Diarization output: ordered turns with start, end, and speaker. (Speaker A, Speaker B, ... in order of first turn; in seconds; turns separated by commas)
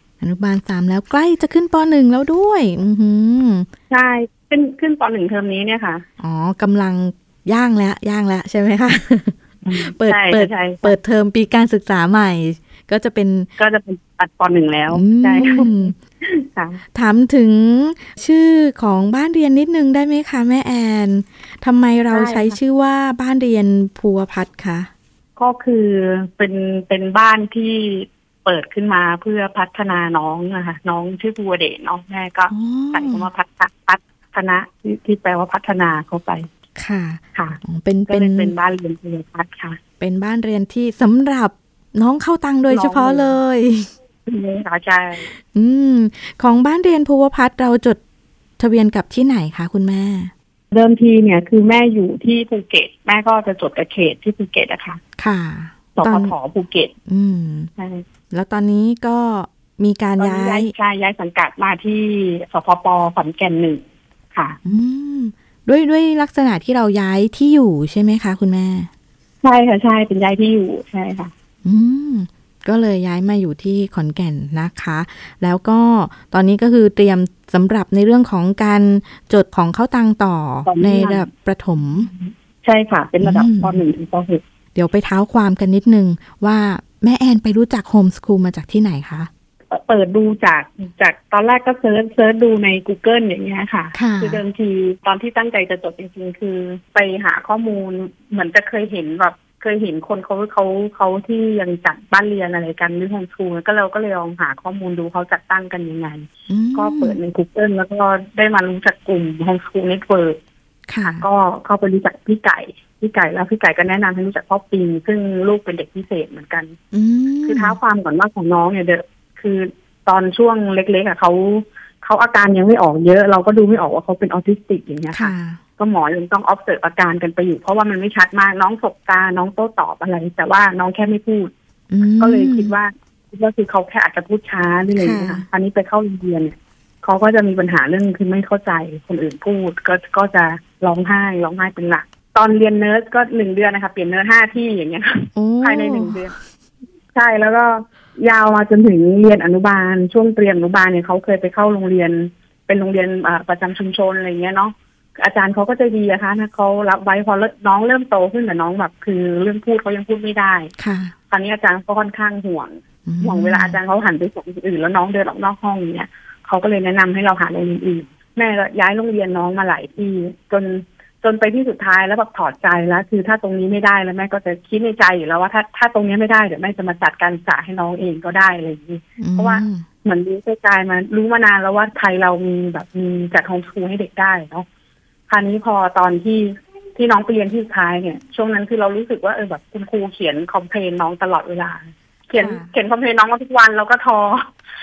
Speaker A: 0.2-3.7, Speaker B: 3.9-6.0, Speaker A: 6.2-13.5, Speaker B: 9.6-10.9, Speaker B: 13.6-16.8, Speaker A: 14.9-15.9, Speaker A: 16.9-24.9, Speaker B: 22.1-22.6, Speaker B: 25.4-36.5, Speaker A: 32.5-33.3, Speaker A: 36.8-38.5, Speaker B: 37.4-39.8, Speaker A: 40.0-43.9, Speaker B: 42.7-43.3, Speaker B: 44.3-45.3, Speaker A: 45.4-48.0, Speaker A: 48.6-50.3, Speaker B: 50.7-55.0, Speaker A: 55.2-56.4, Speaker B: 56.0-56.9, Speaker A: 57.1-57.7, Speaker B: 57.8-58.0, Speaker A: 58.3-60.7, Speaker B: 60.2-63.8, Speaker A: 64.7-68.9, Speaker B: 69.4-71.3, Speaker A: 71.6-82.1, Speaker B: 80.7-81.3, Speaker B: 82.1-84.4, Speaker A: 83.2-83.8, Speaker A: 84.8-89.3, Speaker B: 89.7-110.4, Speaker A: 94.0-94.4, Speaker A: 106.5-107.2, Speaker A: 110.9-111.2, Speaker B: 111.0-116.8, Speaker A: 116.9-117.8, Speaker B: 117.5-146.3, Speaker A: 125.1-125.6, Speaker A: 131.9-132.7, Speaker A: 135.0-135.5, Speaker A: 145.4-146.2, Speaker B: 147.1-160.7, Speaker A: 160.8-161.1, Speaker B: 161.3-184.7, Speaker A: 163.1-163.8, Speaker A: 179.2-179.8, Speaker B: 185.3-194.5, Speaker A: 192.4-192.7